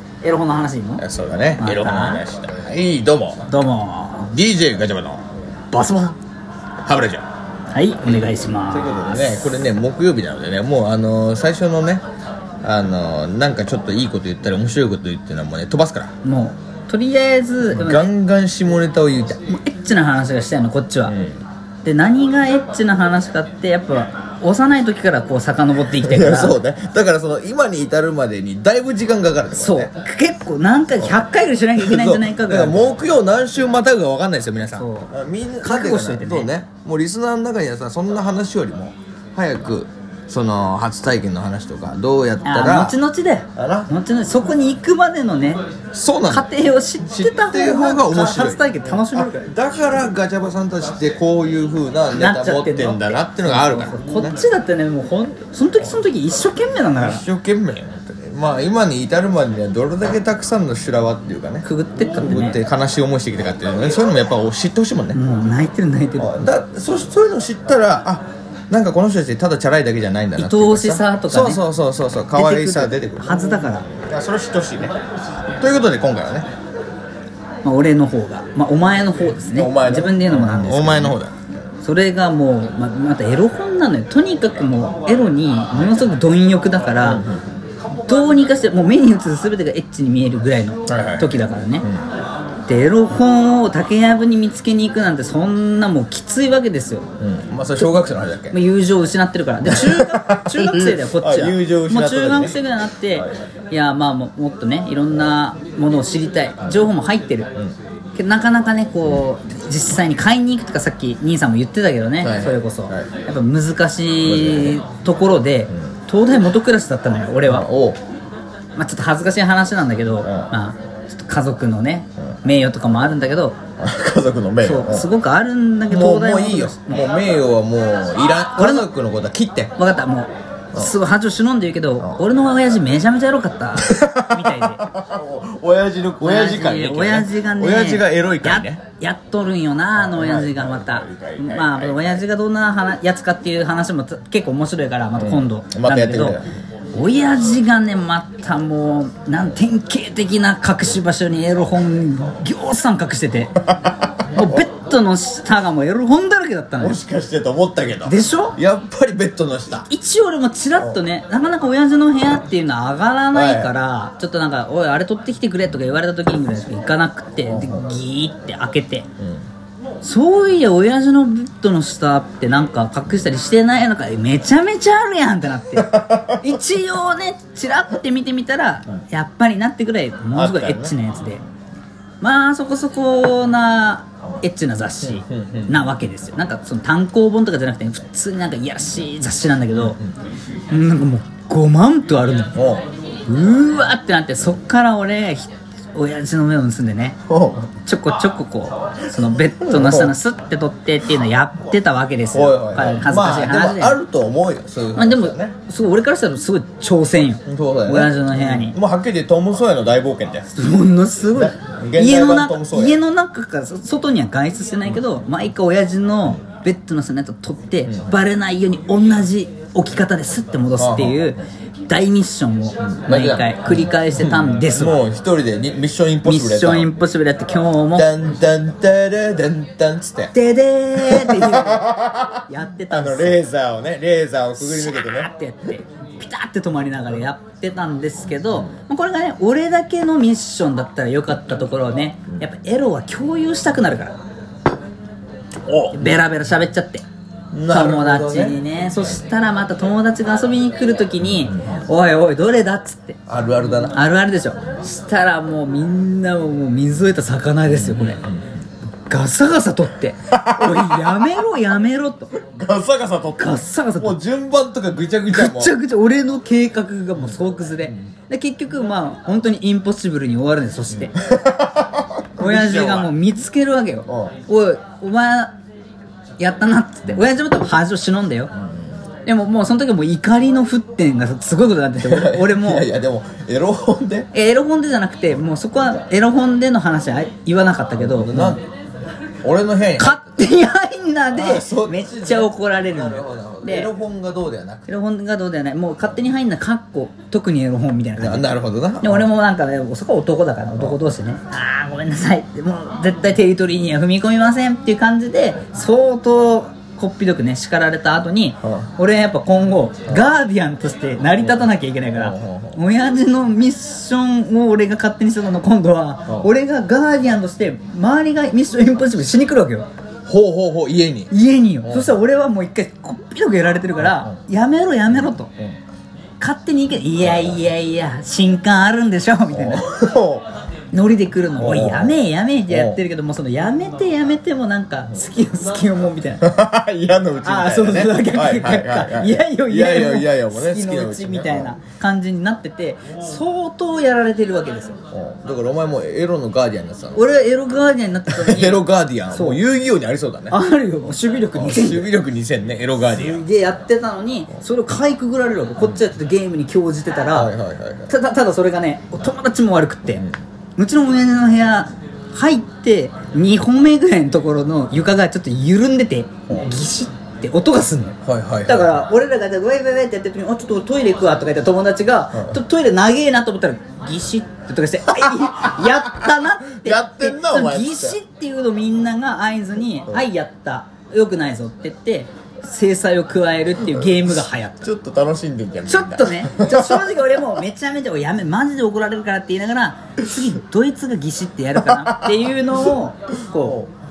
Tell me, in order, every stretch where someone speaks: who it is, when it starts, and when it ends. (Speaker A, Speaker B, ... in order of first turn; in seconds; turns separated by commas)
Speaker A: 0.2-1.0, Speaker B: 1.0-3.5, Speaker A: 1.6-2.2, Speaker A: 3.5-4.3, Speaker B: 4.3-5.2, Speaker A: 5.7-6.2, Speaker B: 6.8-7.2, Speaker A: 7.7-9.4, Speaker B: 8.7-12.0, Speaker B: 12.6-16.1, Speaker A: 16.2-18.1, Speaker B: 17.7-19.4, Speaker A: 19.5-21.1, Speaker B: 21.1-21.4, Speaker A: 21.8-26.6, Speaker B: 25.9-29.9, Speaker A: 29.6-32.9, Speaker B: 31.0-43.0, Speaker A: 34.8-35.1, Speaker A: 35.6-36.5, Speaker A: 42.4-45.6, Speaker B: 43.6-43.9, Speaker B: 45.9-54.4, Speaker A: 46.3-49.5, Speaker A: 52.1-57.2, Speaker B: 57.0-65.2, Speaker A: 61.6-62.6, Speaker A: 65.1-66.4, Speaker B: 66.2-75.0, Speaker A: 70.4-71.6, Speaker A: 72.3-73.9, Speaker B: 75.6-76.5, Speaker A: 77.6-81.2, Speaker B: 79.5-81.3, Speaker A: 81.8-87.2, Speaker B: 87.0-87.5, Speaker A: 88.1-91.9, Speaker B: 90.9-92.0, Speaker A: 92.7-97.0, Speaker B: 97.2-98.6, Speaker A: 98.5-107.5, Speaker B: 99.7-102.6, Speaker B: 106.6-106.9, Speaker A: 108.2-117.7, Speaker B: 112.2-113.1, Speaker B: 114.2-114.8, Speaker B: 117.4-118.0, Speaker A: 118.8-123.6, Speaker B: 120.2-120.5, Speaker B: 123.8-125.1, Speaker A: 124.6-127.1, Speaker B: 125.9-129.7, Speaker A: 128.5-128.9, Speaker A: 129.8-134.9, Speaker B: 132.0-132.3, Speaker B: 133.8-138.8, Speaker A: 136.2-146.4, Speaker B: 139.9-142.2, Speaker B: 145.2-146.5, Speaker A: 146.9-153.6, Speaker B: 153.7-154.7, Speaker A: 154.3-157.0, Speaker B: 156.8-159.9, Speaker A: 158.1-158.6, Speaker A: 159.9-169.1, Speaker B: 163.3-163.7, Speaker B: 167.5-167.9, Speaker B: 169.2-169.4, Speaker A: 170.0-181.4, Speaker B: 175.8-176.5, Speaker B: 180.3-181.0, Speaker A: 182.2-190.0, Speaker B: 185.0-186.0, Speaker B: 189.7-190.2, Speaker A: 190.7-192.6, Speaker B: 192.5-192.8, Speaker A: 193.3-197.2, Speaker B: 197.3-197.7, Speaker A: 197.8-204.0, Speaker B: 199.6-200.1, Speaker B: 202.3-205.6, Speaker A: 205.0-208.8, Speaker B: 207.5-210.5, Speaker A: 210.5-225.0, Speaker B: 211.3-213.0, Speaker B: 217.9-218.1, Speaker B: 220.8-221.3, Speaker B: 222.9-226.9, Speaker A: 226.2-228.1, Speaker B: 227.9-230.3, Speaker A: 230.3-231.9, Speaker B: 230.9-235.3, Speaker A: 232.5-233.4, Speaker A: 234.6-244.2, Speaker B: 238.5-238.7, Speaker B: 245.7-246.2, Speaker A: 245.9-247.1, Speaker B: 247.5-248.6, Speaker A: 247.7-253.2, Speaker B: 251.2-251.8, Speaker B: 253.3-254.0, Speaker A: 253.9-258.2, Speaker B: 257.7-258.5, Speaker A: 259.1-262.3, Speaker B: 260.3-261.2, Speaker B: 262.3-265.7, Speaker A: 263.4-264.2, Speaker A: 265.3-271.1, Speaker B: 267.2-268.1, Speaker B: 270.9-273.1, Speaker A: 272.4-275.6, Speaker B: 274.1-274.3, Speaker A: 276.4-278.5, Speaker B: 278.5-279.0, Speaker A: 279.3-282.9, Speaker B: 282.0-284.3, Speaker A: 284.3-288.6, Speaker B: 288.0-288.6, Speaker B: 289.4-290.6, Speaker A: 290.0-293.9, Speaker B: 291.3-295.0, Speaker A: 294.9-298.5, Speaker B: 298.2-299.3, Speaker A: 299.0-319.9, Speaker B: 300.8-301.0, Speaker B: 311.4-312.8, Speaker B: 316.3-316.5, Speaker B: 320.3-322.2, Speaker A: 321.3-325.5, Speaker B: 324.0-324.4, Speaker B: 325.1-325.8, Speaker A: 326.4-329.8, Speaker B: 327.2-327.7, Speaker B: 329.5-330.5, Speaker A: 330.9-336.5, Speaker B: 331.6-333.0, Speaker B: 336.4-341.8, Speaker A: 337.4-345.0, Speaker B: 345.1-347.4, Speaker A: 347.1-349.6, Speaker B: 348.3-350.6, Speaker A: 350.5-352.1, Speaker B: 351.5-353.4, Speaker A: 353.1-357.5, Speaker B: 357.3-358.1, Speaker A: 358.1-360.2, Speaker B: 360.1-360.4, Speaker A: 360.8-384.9, Speaker B: 368.2-369.1, Speaker B: 372.3-372.6, Speaker B: 375.2-378.2, Speaker B: 383.8-387.4, Speaker A: 385.9-393.8, Speaker B: 391.8-392.9, Speaker B: 393.5-393.9